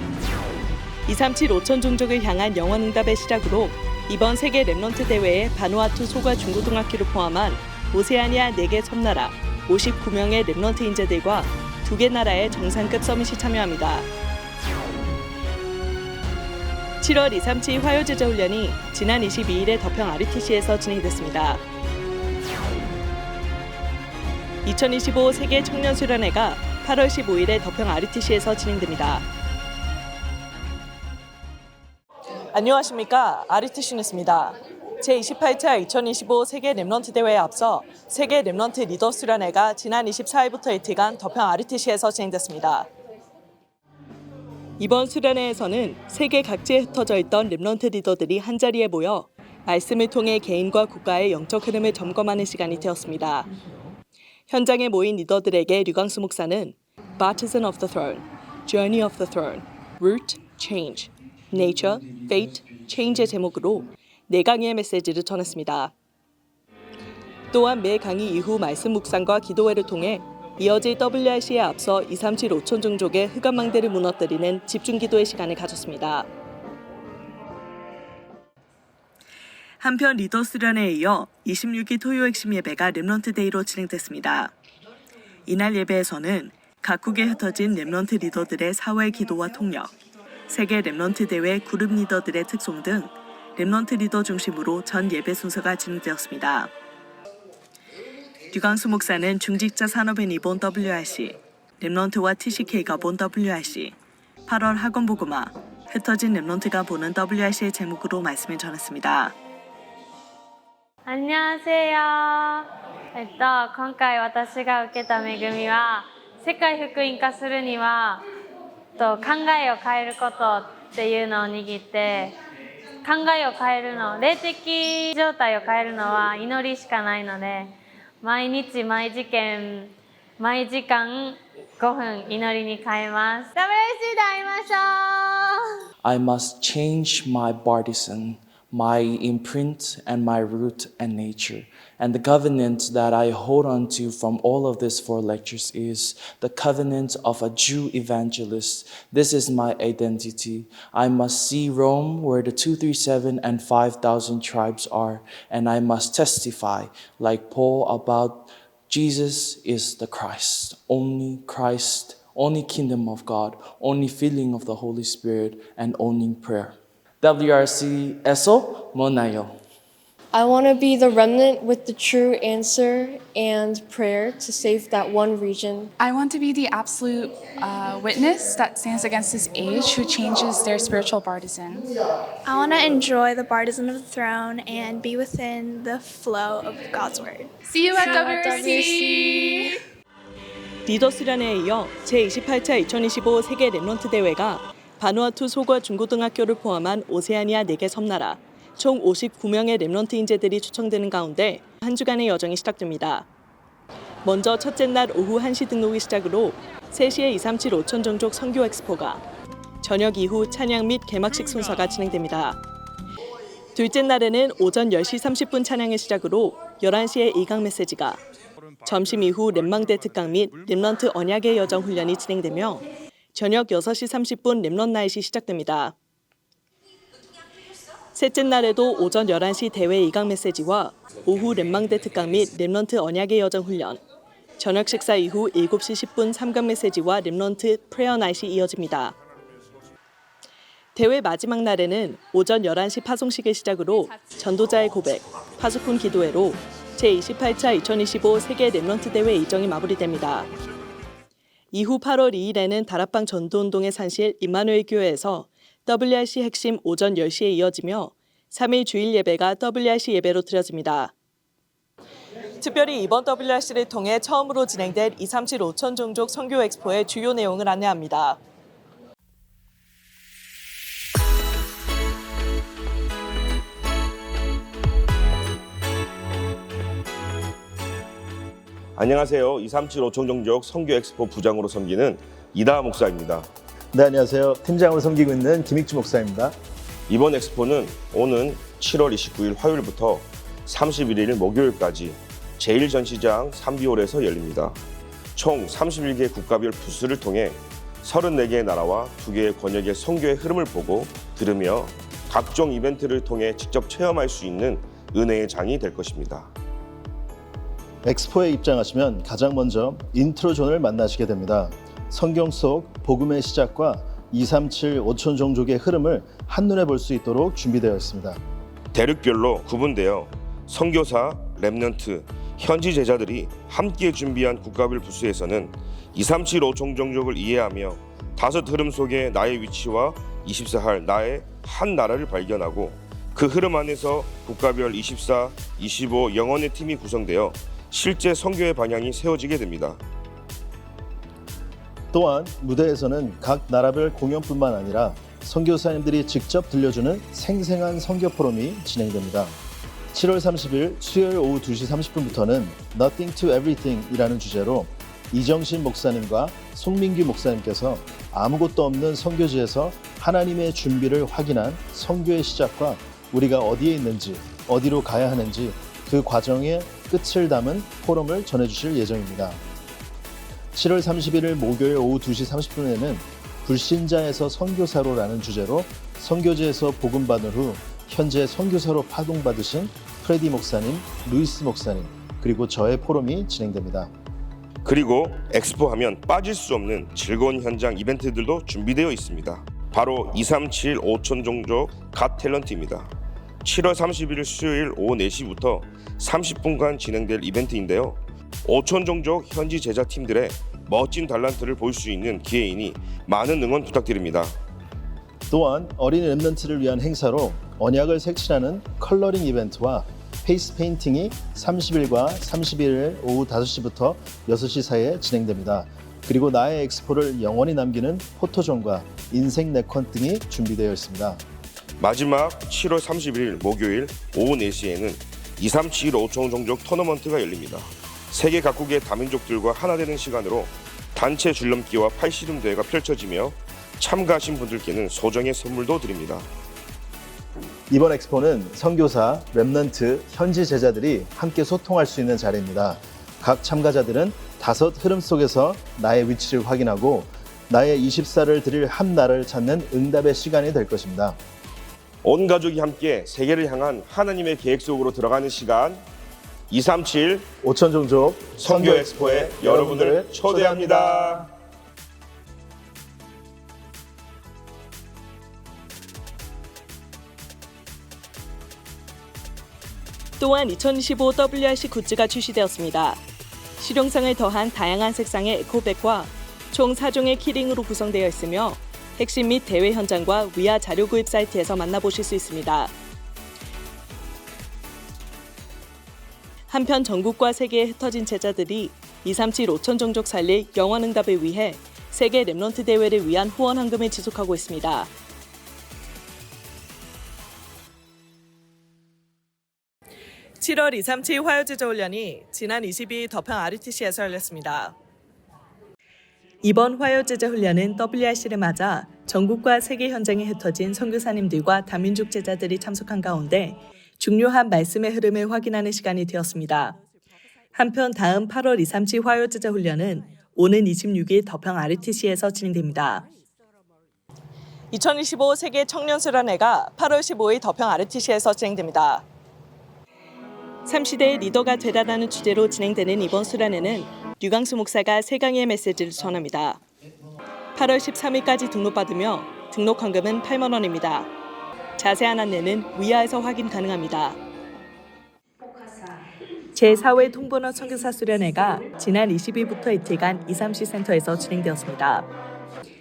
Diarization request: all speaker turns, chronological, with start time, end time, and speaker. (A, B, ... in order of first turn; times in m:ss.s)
0:01.1-0:14.1 A
0:17.0-0:21.6 A
0:24.6-0:29.2 A
0:32.5-0:42.9 A
0:44.8-0:53.5 A
0:54.5-1:05.9 A
1:07.5-1:16.3 A
1:19.8-1:24.5 A
1:25.5-1:29.9 A
1:30.5-1:36.7 A
1:38.5-1:49.4 A
1:51.1-1:58.2 B
1:59.0-2:02.4 B
2:03.0-2:15.6 B
2:16.0-2:49.6 C
2:50.3-2:55.9 D
2:56.0-3:01.9 E
3:02.4-3:08.1 F
3:07.6-3:09.8 E
3:08.1-3:09.4 D
3:10.9-3:23.3 A
3:24.2-3:29.2 A
3:29.8-3:32.6 A
3:33.8-3:38.2 A
3:38.8-3:45.9 A
3:48.1-3:54.0 A
3:54.6-3:59.2 A
4:01.0-4:10.5 A
4:11.7-4:21.1 A
4:22.6-4:28.4 A
4:39.0-4:43.5 G
4:43.9-4:46.6 H
4:47.1-4:54.8 G
4:55.4-5:06.5 G
5:08.0-5:18.4 H
5:18.9-5:40.0 G
5:42.1-5:49.6 H
5:50.1-6:09.6 H
6:10.7-6:24.1 H
6:24.8-6:33.1 G
6:33.6-6:44.6 G
6:45.5-7:01.4 H
7:02.0-7:16.5 G
7:17.9-7:31.4 H
7:32.2-7:36.0 G
7:36.7-7:37.5 G
7:37.6-7:41.5 H
7:38.6-7:41.5 G
7:50.4-7:53.2 A
7:53.8-8:02.9 A
8:06.7-8:15.1 A
8:20.6-8:25.0 A
8:26.6-8:37.0 A
8:37.7-8:43.3 A
8:44.9-8:49.2 A
8:50.8-8:56.8 A
8:57.8-9:01.3 A
9:02.0-9:04.4 A
9:06.8-9:12.3 A